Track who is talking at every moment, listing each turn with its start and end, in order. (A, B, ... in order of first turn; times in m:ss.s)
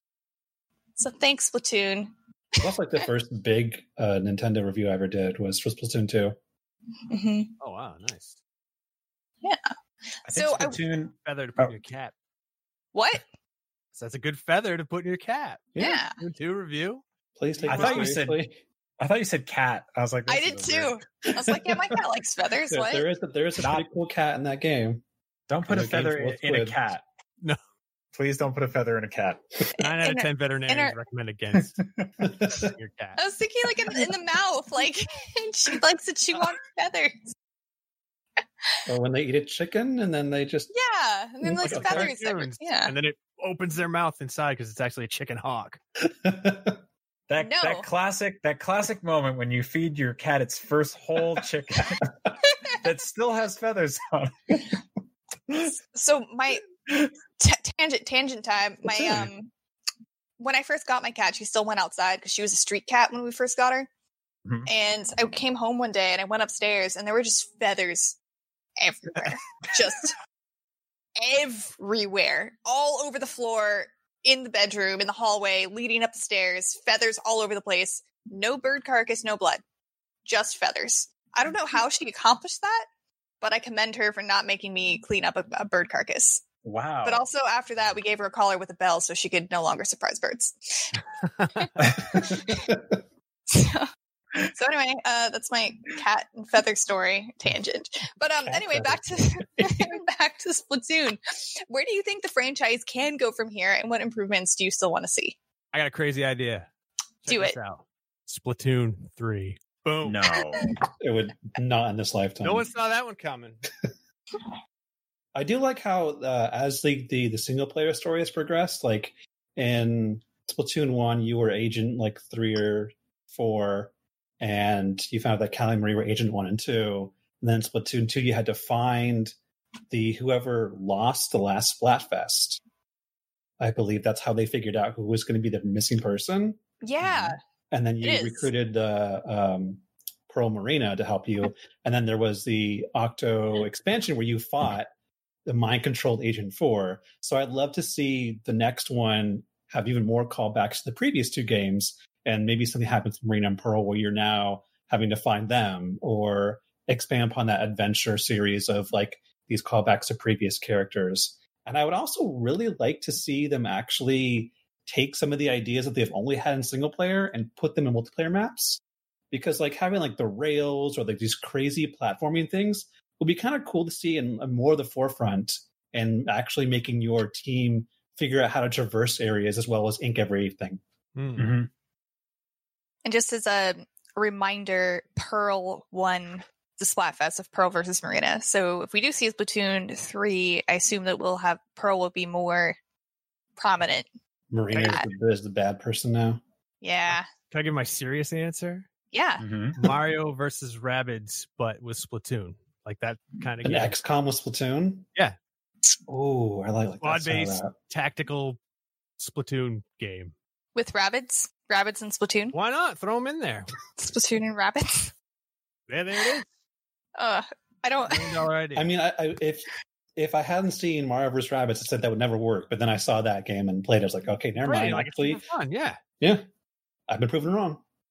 0:01.0-0:02.6 A
0:02.6-0:06.4 B
0:07.1-0:07.5 A
0:07.6-0:08.4 C
0:09.4-0:09.7 A
0:10.2-0:11.7 D
0:10.3-0:10.8 A
0:11.2-0:12.1 C
0:12.9-0:13.2 A
0:14.0-0:17.0 C
0:15.7-0:16.0 B
0:15.8-0:16.1 A
0:17.4-0:18.6 B
0:17.6-0:18.0 C
0:17.7-0:18.4 D
0:19.0-0:20.9 D
0:20.3-0:23.0 A
0:21.3-0:22.0 B
0:22.7-0:25.0 B
0:25.5-0:27.0 D
0:25.6-0:26.8 B
0:28.1-0:29.4 D
0:29.8-0:31.0 A
0:29.8-0:31.7 C
0:32.2-0:32.7 B
0:32.5-0:33.2 C
0:33.2-0:37.3 A
0:38.9-0:40.7 B
0:40.7-0:42.9 A
0:41.4-0:42.1 B
0:41.6-0:45.8 C
0:46.1-0:46.8 B
0:47.3-0:52.1 D
0:47.4-0:47.8 A
0:52.8-0:54.6 D
0:55.5-0:56.6 A
0:57.4-0:59.5 A
1:00.4-1:03.9 A
1:04.7-1:08.2 A
1:08.8-1:10.2 A
1:11.2-1:19.6 A
1:20.2-1:22.8 A
1:23.4-1:26.4 A
1:26.6-1:27.2 D
1:27.0-1:31.0 A
1:31.2-1:31.6 C
1:31.6-1:32.7 A
1:33.5-1:33.9 A
1:34.5-1:45.4 A
1:38.4-1:40.0 B
1:45.7-1:46.7 C
1:47.2-1:50.2 C
1:47.3-1:47.5 A
1:50.0-1:50.6 D
1:51.0-1:52.7 B
1:52.4-1:53.6 C
1:55.3-2:09.3 B
2:09.9-2:12.6 B
2:13.6-2:24.9 B
2:16.8-2:17.4 A
2:18.0-2:18.5 A
2:25.4-3:00.8 B
3:01.2-3:01.5 C
3:01.4-3:01.7 D
3:03.0-3:12.8 A
3:13.6-3:14.1 A
3:14.5-3:16.4 B
3:14.8-3:15.0 A
3:16.8-3:17.3 A
3:17.1-3:18.8 C
3:19.1-3:19.4 A
3:19.4-3:19.8 D
3:19.8-3:23.9 C
3:23.6-3:25.0 B
3:26.1-3:27.7 B
3:27.0-3:28.6 C
3:29.2-3:30.3 C
3:30.7-3:32.5 A
3:32.5-3:33.7 C
3:34.0-3:35.1 A
3:35.9-3:36.5 C
3:37.2-3:38.4 A
3:38.1-3:38.9 C
3:38.7-3:45.4 B
3:44.6-3:46.0 C
3:47.1-3:47.8 B